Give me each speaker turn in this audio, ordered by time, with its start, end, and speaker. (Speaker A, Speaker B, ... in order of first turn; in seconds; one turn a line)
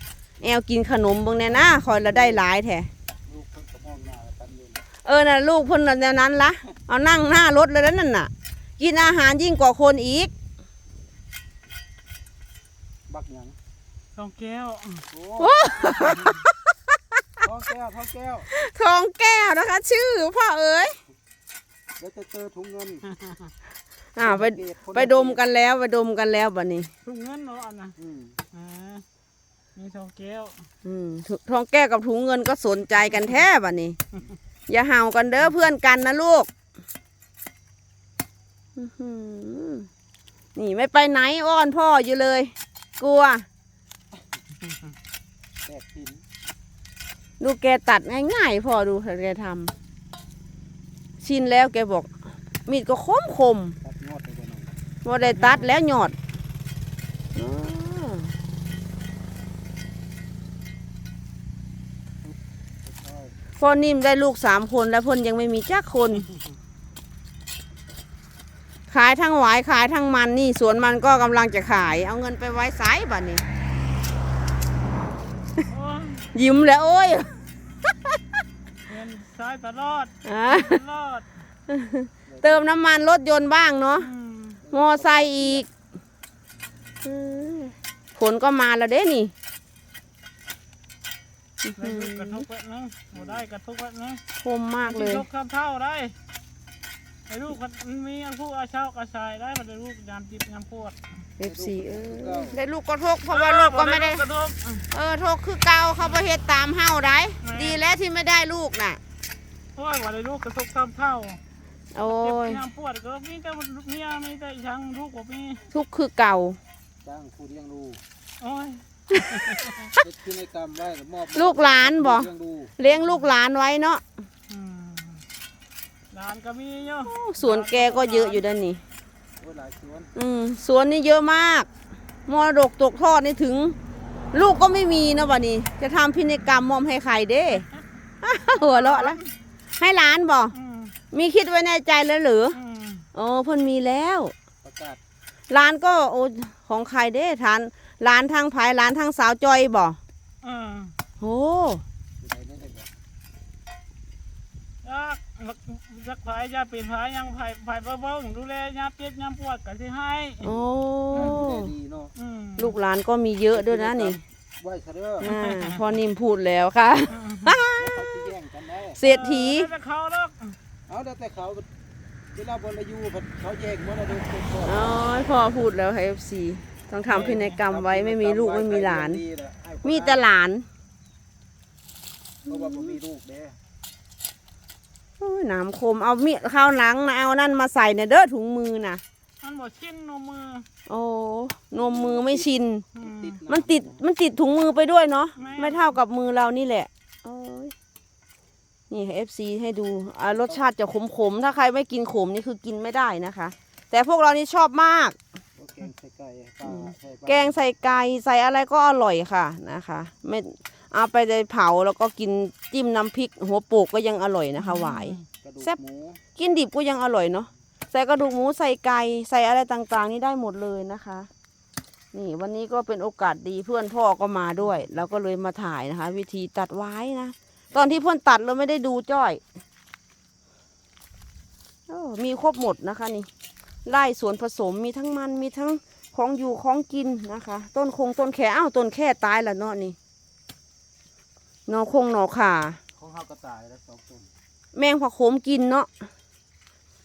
Speaker A: 0.4-2.9
Speaker B: 2.0-2.4
Speaker B: 3.3-4.8
Speaker A: 5.0-10.3
Speaker B: 13.1-13.6
Speaker C: 14.2-15.1
Speaker B: 15.1-16.1
Speaker A: 15.4-16.6
Speaker B: 17.4-18.5
Speaker A: 18.5-21.0
Speaker B: 22.0-23.0
Speaker A: 24.1-26.9
Speaker B: 24.2-25.4
Speaker C: 27.0-27.9
Speaker B: 28.0-28.4
Speaker C: 28.5-29.0
Speaker C: 29.8-30.6
Speaker A: 30.8-34.0
Speaker A: 34.7-36.5
Speaker A: 38.8-39.9
Speaker A: 40.5-43.5
Speaker B: 45.6-46.2
Speaker A: 47.4-49.7
Speaker A: 51.2-52.1
Speaker A: 52.6-53.8
Speaker B: 53.8-54.8
Speaker A: 55.0-56.1
Speaker C: 55.2-55.7
Speaker A: 57.3-58.3
Speaker B: 62.9-63.3
Speaker A: 63.6-66.3
Speaker A: 68.9-73.4
Speaker C: 75.7-76.3
Speaker A: 76.3-77.3
Speaker C: 78.8-81.2
Speaker A: 80.2-80.8
Speaker A: 81.7-84.1
Speaker B: 82.3-82.6
Speaker C: 84.0-84.6
Speaker B: 84.6-85.6
Speaker A: 84.7-85.7
Speaker A: 87.0-89.3
Speaker A: 91.6-92.4
Speaker C: 91.8-94.2
Speaker A: 94.4-95.2
Speaker C: 94.8-96.1
Speaker C: 97.3-101.0
Speaker A: 101.4-104.2
Speaker B: 101.4-102.6
Speaker C: 103.3-104.9
Speaker A: 104.9-109.0
Speaker C: 107.4-107.9
Speaker C: 109.8-111.4
Speaker A: 111.9-112.6
Speaker C: 112.0-115.6
Speaker A: 115.7-116.6
Speaker B: 117.0-118.0
Speaker C: 118.4-119.9
Speaker B: 120.0-122.7
Speaker A: 121.3-124.0
Speaker C: 124.5-125.2
Speaker C: 126.1-128.4
Speaker A: 127.0-128.8
Speaker B: 129.4-130.1
Speaker A: 130.1-131.7
Speaker A: 132.3-133.7
Speaker A: 134.3-137.6
Speaker A: 138.2-139.2
Speaker C: 138.5-139.2
Speaker A: 139.8-140.5
Speaker C: 140.5-140.9
Speaker A: 141.1-142.6
Speaker C: 142.5-143.1
Speaker A: 143.1-144.3
Speaker B: 144.6-145.0
Speaker A: 145.5-150.0
Speaker C: 150.4-150.9
Speaker A: 151.2-151.8
Speaker B: 152.2-152.9
Speaker C: 154.8-160.5
Speaker A: 160.4-161.7
Speaker B: 161.1-162.1
Speaker C: 162.2-162.8
Speaker A: 162.6-164.2
Speaker B: 163.5-165.3
Speaker A: 165.2-167.9
Speaker C: 165.2-165.8
Speaker C: 167.2-167.6
Speaker B: 167.8-169.0
Speaker A: 168.9-169.7
Speaker C: 169.0-170.6
Speaker B: 170.9-171.7
Speaker B: 172.3-174.7
Speaker A: 174.6-179.2
Speaker C: 177.1-177.6
Speaker B: 177.5-180.2
Speaker A: 179.8-180.7
Speaker A: 182.5-182.9
Speaker B: 182.5-183.6
Speaker A: 185.2-189.0
Speaker C: 189.4-190.7
Speaker A: 190.9-192.8
Speaker B: 191.8-192.4
Speaker C: 192.9-193.4
Speaker B: 193.0-194.0
Speaker A: 193.5-197.7
Speaker C: 195.4-195.8
Speaker A: 198.9-205.2
Speaker B: 205.6-207.5
Speaker A: 206.6-215.8
Speaker C: 214.6-215.2
Speaker B: 215.4-216.2
Speaker A: 216.3-221.3
Speaker A: 222.1-229.4
Speaker A: 231.9-233.3
Speaker A: 233.8-239.9
Speaker A: 241.7-242.8
Speaker B: 243.0-244.3
Speaker A: 244.7-245.9